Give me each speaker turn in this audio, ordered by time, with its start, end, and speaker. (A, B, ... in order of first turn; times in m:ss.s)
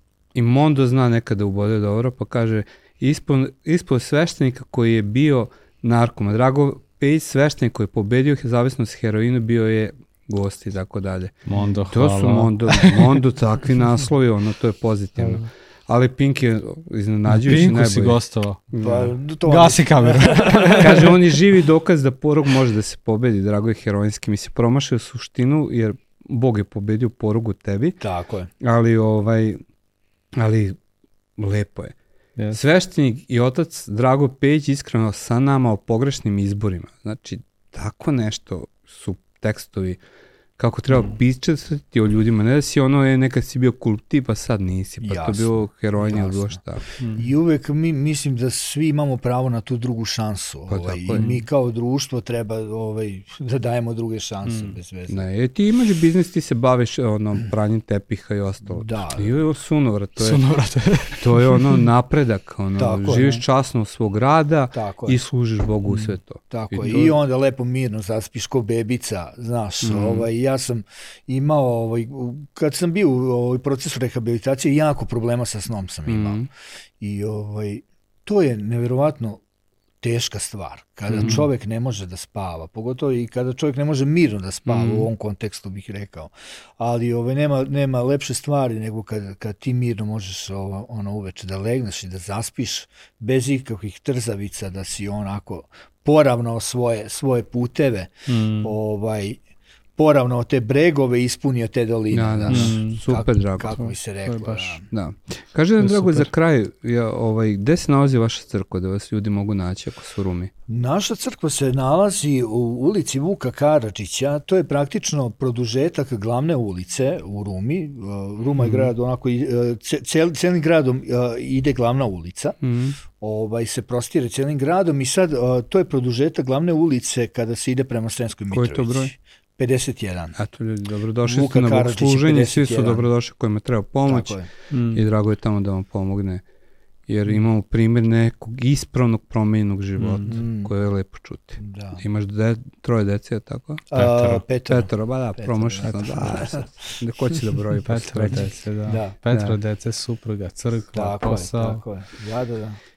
0:00.3-0:18.2 A
0:11.4-0:13.2 B
0:15.2-0:15.4 B
0:17.2-0:18.6 B
0:18.7-0:19.1 A
0:18.8-0:21.0 C
0:19.4-0:21.1 B
0:20.8-0:28.0 A
0:28.0-0:28.5 C
0:28.6-0:29.6 A
0:30.4-0:30.8 A
0:31.4-0:32.0 A
0:32.5-0:40.0 A
0:40.6-0:46.9 A
0:45.0-0:46.6 C
0:47.0-0:47.3 B
0:47.1-0:55.2 C
0:50.7-0:51.3 A
0:51.2-0:51.4 B
0:54.4-0:54.7 B
0:55.1-1:00.4 A
0:58.7-0:59.3 C
1:00.2-1:01.8 B
1:01.1-1:07.2 A
1:02.8-1:03.3 C
1:03.1-1:03.4 B
1:04.7-1:05.2 C
1:06.5-1:16.4 C
1:09.8-1:10.3 A
1:16.1-1:16.5 A
1:17.0-1:19.4 C
1:20.0-1:39.4 C
1:21.1-1:21.4 A
1:21.1-1:21.5 B
1:24.6-1:25.1 A
1:38.3-1:38.7 B
1:40.0-1:44.8 C
1:42.1-1:43.9 A
1:42.5-1:43.0 B
1:43.8-1:44.8 B
1:44.9-1:50.5 A
1:45.8-1:46.3 B
1:50.7-2:02.6 C
1:58.6-1:58.8 B
2:02.6-2:03.0 A
2:03.2-2:10.4 C
2:08.5-2:09.1 A
2:10.4-2:14.4 A
2:11.2-2:13.1 C
2:14.0-2:14.5 C
2:14.7-2:15.0 B
2:14.9-2:16.4 A
2:17.1-2:28.6 A
2:20.0-2:20.4 B
2:20.2-2:20.7 C
2:21.6-2:22.0 C
2:23.9-2:27.4 C
2:25.8-2:26.4 B
2:27.8-2:31.8 B
2:28.8-2:29.2 C
2:29.3-2:29.6 A
2:30.9-2:32.8 C